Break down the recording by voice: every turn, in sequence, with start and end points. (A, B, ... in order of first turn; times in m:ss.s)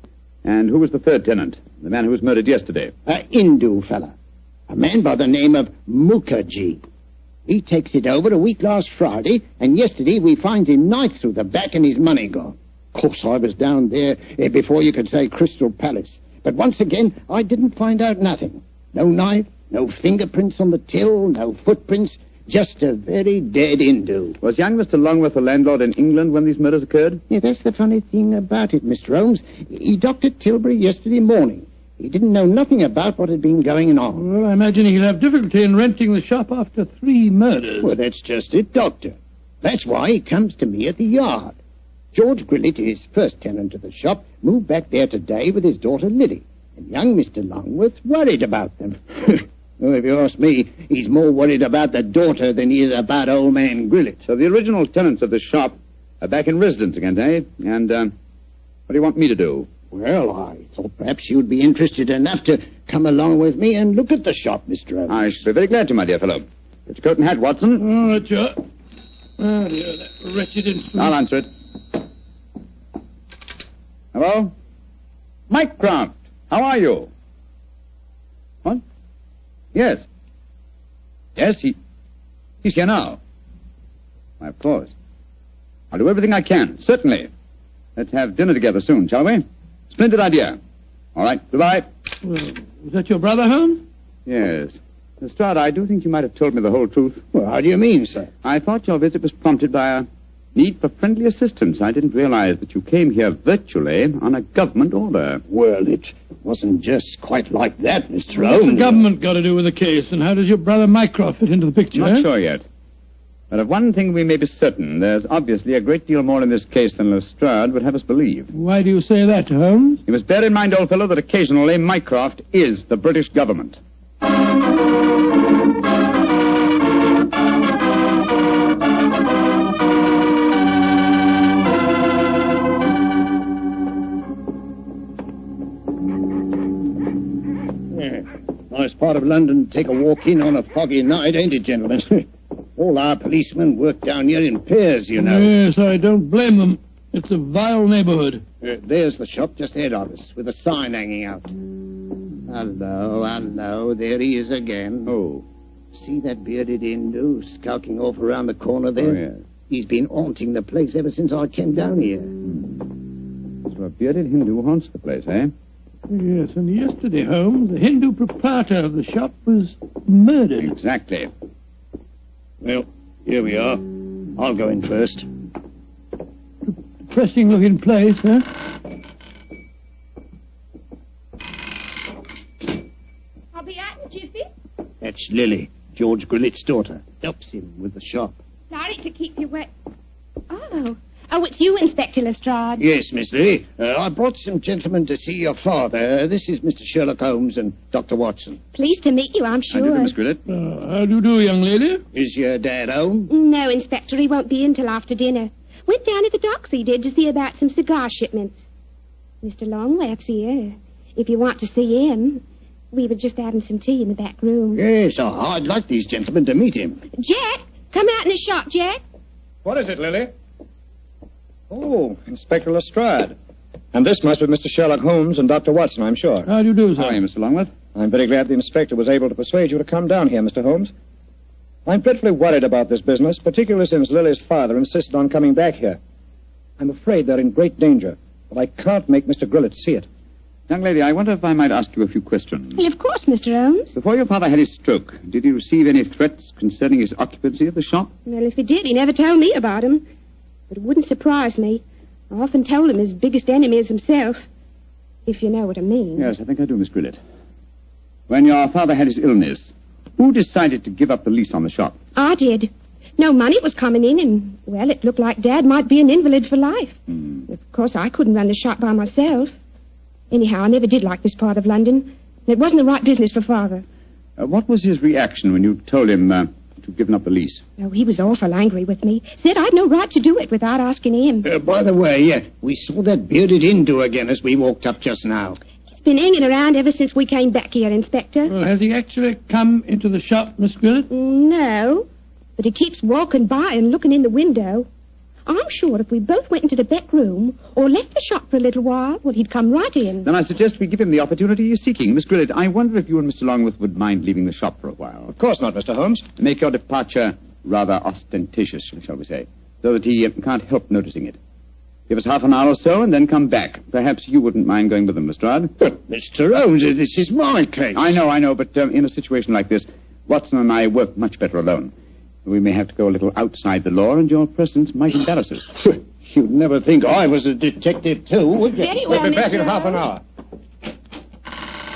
0:00.4-0:02.9 A
0:03.0-0:04.1 B
0:04.7-0:06.8 B
0:07.5-0:24.4 B
0:24.4-0:27.2 A
0:27.3-0:34.2 B
0:34.1-0:37.9 C
0:37.8-0:41.6 B
0:42.1-0:54.2 B
0:54.2-0:58.1 A
0:58.9-0:59.7 A
0:59.9-1:05.4 B
1:05.1-1:07.9 A
1:07.8-1:08.6 C
1:09.4-1:11.1 C
1:11.0-1:11.5 A
1:14.1-1:14.5 A
1:15.5-1:17.1 A
1:19.7-1:20.0 A
1:21.4-1:21.8 A
1:22.6-1:23.2 A
1:24.4-1:24.9 A
1:25.9-1:27.3 A
1:28.0-1:30.6 A
1:31.1-1:31.9 A
1:32.2-1:33.8 C
1:34.2-1:37.2 A
1:37.3-1:38.3 B
1:38.4-1:45.4 A
1:45.5-1:49.1 B
1:48.4-1:52.3 C
1:51.9-1:52.6 A
1:53.5-1:58.5 A
1:58.5-2:00.0 C
2:00.0-2:03.8 A
2:17.9-2:25.5 B
2:25.2-2:28.4 C
2:28.6-2:31.5 B
2:32.5-2:35.1 B
2:35.0-2:35.4 A
2:35.9-2:42.3 B
2:39.0-2:39.4 A
2:42.4-2:42.8 A
2:43.6-2:45.5 A
2:46.1-2:50.7 C
2:50.6-2:51.3 A
2:52.6-2:55.3 B
2:56.6-2:58.5 C
3:03.5-3:04.5 D
3:05.0-3:08.4 B
3:08.7-3:09.7 D
3:10.5-3:12.8 D
3:12.8-3:18.6 B
3:18.7-3:20.1 D
3:19.7-3:20.4 A
3:20.5-3:22.0 C
3:22.1-3:23.3 B
3:23.3-3:28.6 D
3:29.4-3:34.8 D
3:34.7-3:37.0 B
3:37.2-3:39.0 D
3:39.6-3:40.3 E
3:41.7-3:43.4 E
3:43.9-3:46.5 E
3:46.4-3:47.2 C
3:47.0-3:47.7 A
3:47.9-3:50.9 E
3:51.8-3:56.0 E
3:56.8-4:00.0 E
4:00.7-4:02.8 A
4:02.8-4:03.9 D
4:03.9-4:08.1 A
4:08.2-4:10.0 D
4:10.7-4:14.4 D
4:15.2-4:16.3 D
4:16.2-4:17.2 A
4:18.3-4:22.0 A
4:22.2-4:29.5 D
4:30.3-4:33.8 D
4:34.4-4:37.6 A
4:37.8-4:41.5 D
4:41.4-4:45.6 B
4:46.0-4:48.5 D
4:48.4-4:51.1 C
4:51.1-4:54.9 D
4:55.4-5:00.3 D
5:00.2-5:05.3 A
5:05.3-5:06.2 E
5:06.4-5:11.4 A
5:12.1-5:15.7 A
5:15.8-5:18.2 B
5:17.9-5:21.9 A
5:22.4-5:25.7 A
5:26.2-5:29.9 B
5:28.8-5:30.1 D